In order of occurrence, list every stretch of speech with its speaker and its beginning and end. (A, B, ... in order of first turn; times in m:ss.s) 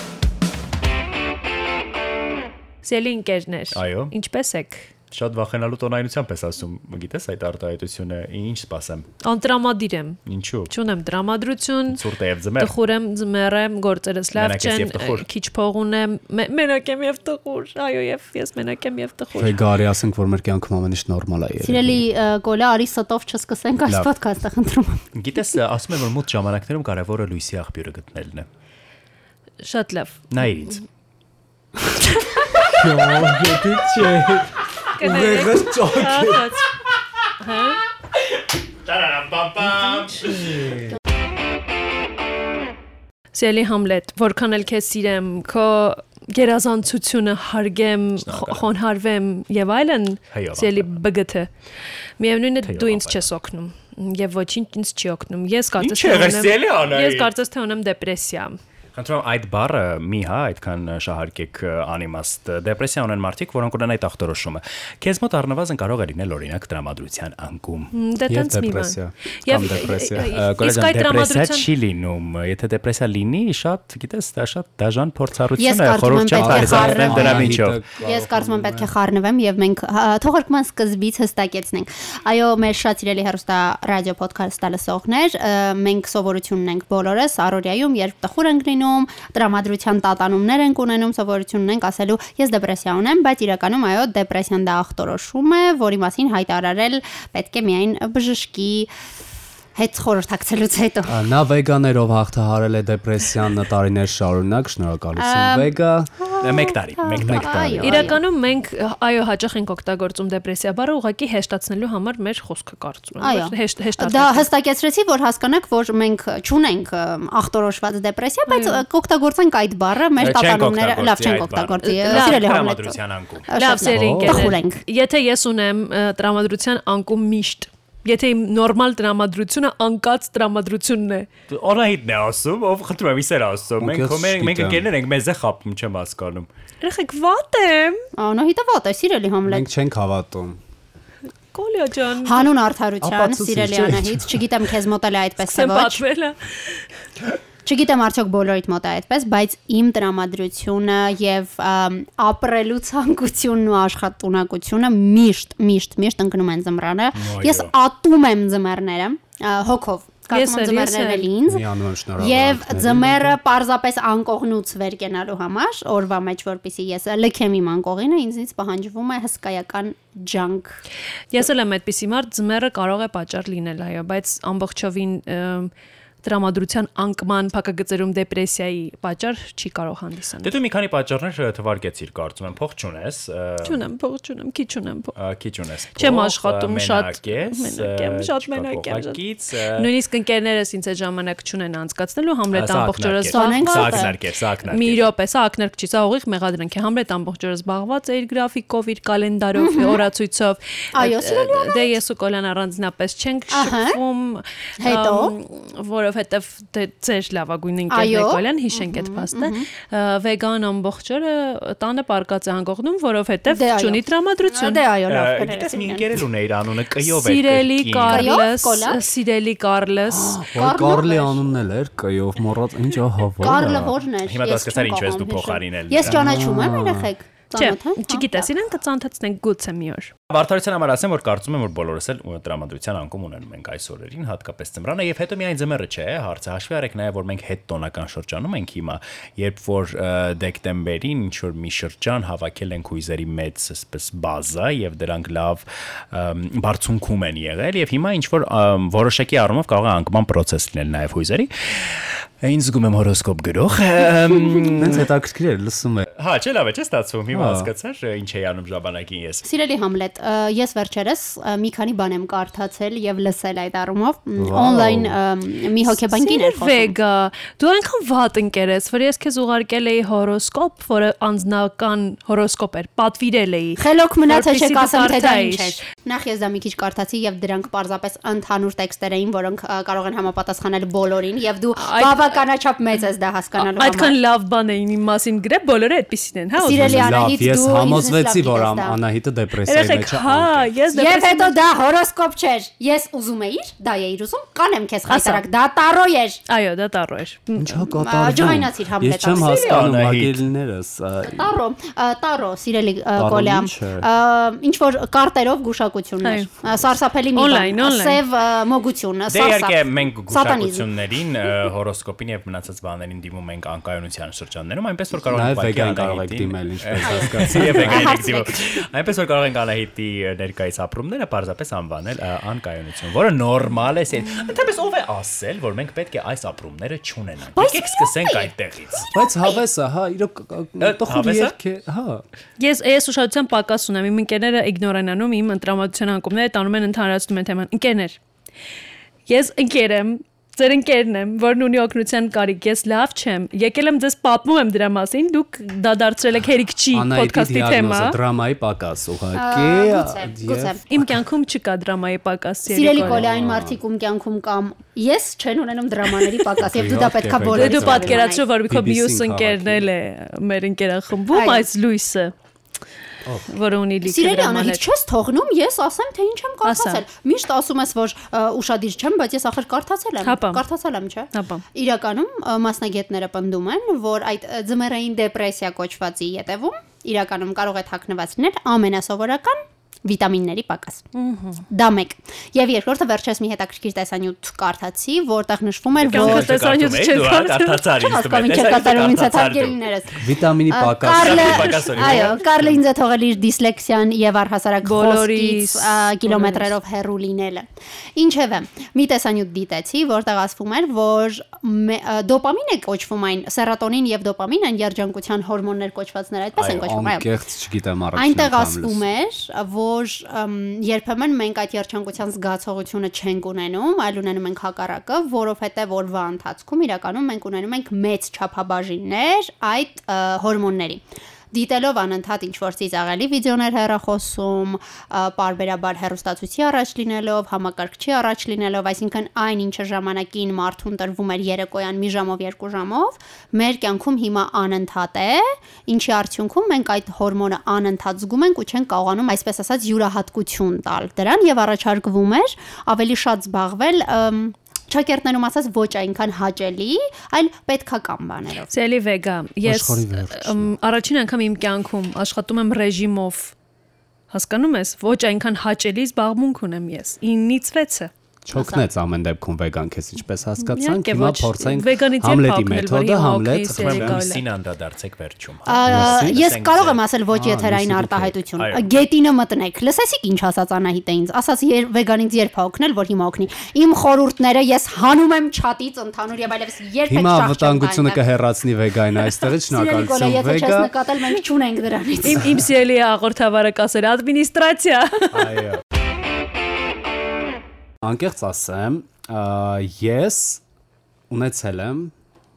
0:02.8-0:04.9 A
0:03.7-0:04.1 B
0:05.1-0:09.1 B
0:09.2-0:12.0 A
0:10.2-0:10.7 B
0:11.9-0:12.7 B
0:12.6-0:19.6 A
0:14.3-0:15.2 B
0:19.4-0:22.0 C
0:21.6-0:25.0 D
0:25.1-0:28.5 B
0:29.6-0:30.4 A
0:30.3-0:30.8 B
0:31.9-0:32.6 A
0:32.6-0:36.6 C
0:35.0-0:36.7 A
0:37.4-0:37.8 A
0:38.8-0:40.8 B
0:43.3-0:51.5 A
0:48.2-0:48.6 B
0:50.3-0:51.0 B
0:52.2-0:58.6 A
0:52.6-0:53.3 B
0:55.8-0:57.3 B
0:58.9-1:07.9 B
1:07.9-1:11.7 A
1:08.3-1:10.3 C
1:10.2-1:17.8 B
1:15.6-1:38.9 D
1:16.3-1:18.9 C
1:39.7-1:41.2 D
1:41.0-1:46.1 C
1:45.2-1:48.2 D
1:46.4-1:48.1 B
1:47.1-1:48.1 C
1:47.8-1:54.5 A
1:53.2-2:03.0 D
1:58.5-1:58.8 A
2:00.2-2:03.5 B
2:01.8-2:02.4 A
2:03.5-2:04.8 D
2:03.5-2:11.3 A
2:03.8-2:04.6 C
2:11.5-2:16.5 B
2:13.8-2:14.8 C
2:16.8-2:18.0 A
2:18.2-2:19.7 D
2:19.4-2:20.6 C
2:21.5-2:22.5 A
2:22.2-2:26.0 D
2:23.0-2:24.4 C
2:25.4-2:26.8 A
2:27.6-2:41.6 D
2:37.1-2:37.7 B
2:40.3-2:41.3 A
2:41.5-2:43.4 C
2:42.2-2:50.8 D
2:51.3-2:55.7 A
2:56.2-3:00.5 A
3:00.4-3:03.8 B
3:03.6-3:05.1 A
3:05.2-3:09.9 B
3:06.0-3:09.2 A
3:09.7-3:14.1 A
3:12.5-3:15.0 B
3:13.3-3:14.1 D
3:14.6-3:34.8 A
3:19.6-3:20.0 D
3:20.9-3:22.0 D
3:23.5-3:24.0 D
3:24.8-3:25.3 D
3:27.9-3:29.7 D
3:33.5-3:36.1 D
3:35.1-3:38.3 B
3:37.0-3:40.4 A
3:38.0-3:39.0 D
3:40.1-3:43.9 C
3:40.5-3:41.4 D
3:43.4-3:48.5 D
3:44.2-3:46.2 B
3:46.1-3:47.1 C
3:47.5-3:50.1 A
3:50.3-4:15.1 B
4:14.8-4:16.1 C
4:16.1-4:19.4 B
4:17.3-4:17.7 C
4:19.4-4:26.9 D
4:24.4-4:25.1 C
4:25.8-4:35.8 A
4:33.8-4:44.1 D
4:41.8-4:42.3 A
4:43.7-4:47.2 A
4:46.6-4:49.0 D
4:46.6-4:50.7 C
4:49.6-4:51.5 A
4:50.9-4:56.4 D
4:55.1-4:55.4 A
4:56.5-4:57.8 A
4:57.6-5:01.5 C
4:58.0-4:59.8 D
4:59.3-5:00.4 B
5:01.2-5:10.9 D
5:03.2-5:04.1 C
5:06.2-5:06.5 A
5:07.3-5:08.2 A
5:09.3-5:29.1 B
5:15.3-5:18.1 C
5:17.0-5:18.8 D
5:27.5-5:28.5 D
5:29.1-5:32.2 C
5:30.8-5:31.5 B
5:32.6-5:38.2 A
5:39.3-5:48.2 A
5:46.9-5:51.1 C
5:49.3-5:50.8 D
5:50.9-5:53.2 A
5:52.7-5:58.5 D
5:52.9-5:53.8 C
5:56.6-5:59.9 C
5:57.4-6:02.3 A
6:01.3-6:01.6 D
6:03.4-6:04.8 A
6:04.0-6:21.0 D
6:06.6-6:07.0 A
6:10.2-6:10.6 A
6:11.3-6:11.6 A
6:21.1-6:21.6 A
6:21.7-6:26.5 D
6:26.0-6:29.8 B
6:26.1-6:27.8 A
6:27.9-6:47.3 D
6:30.2-6:32.3 C
6:31.2-6:32.8 B
6:34.8-6:36.7 A
6:46.6-6:49.0 C
6:48.2-7:28.7 D
7:28.7-7:33.5 A
7:29.6-7:30.7 C
7:34.3-7:38.1 A
7:38.4-7:44.2 C
7:38.5-7:38.8 D
7:40.6-7:44.4 A
7:43.6-7:47.0 B
7:45.7-7:58.2 D
7:45.8-7:46.5 C
7:47.3-7:48.4 C
7:48.6-7:48.9 B
7:57.1-8:00.9 C
7:59.6-8:02.6 D
8:02.2-8:05.6 A
8:05.3-8:05.8 C
8:08.0-8:10.6 C
8:11.3-8:12.1 C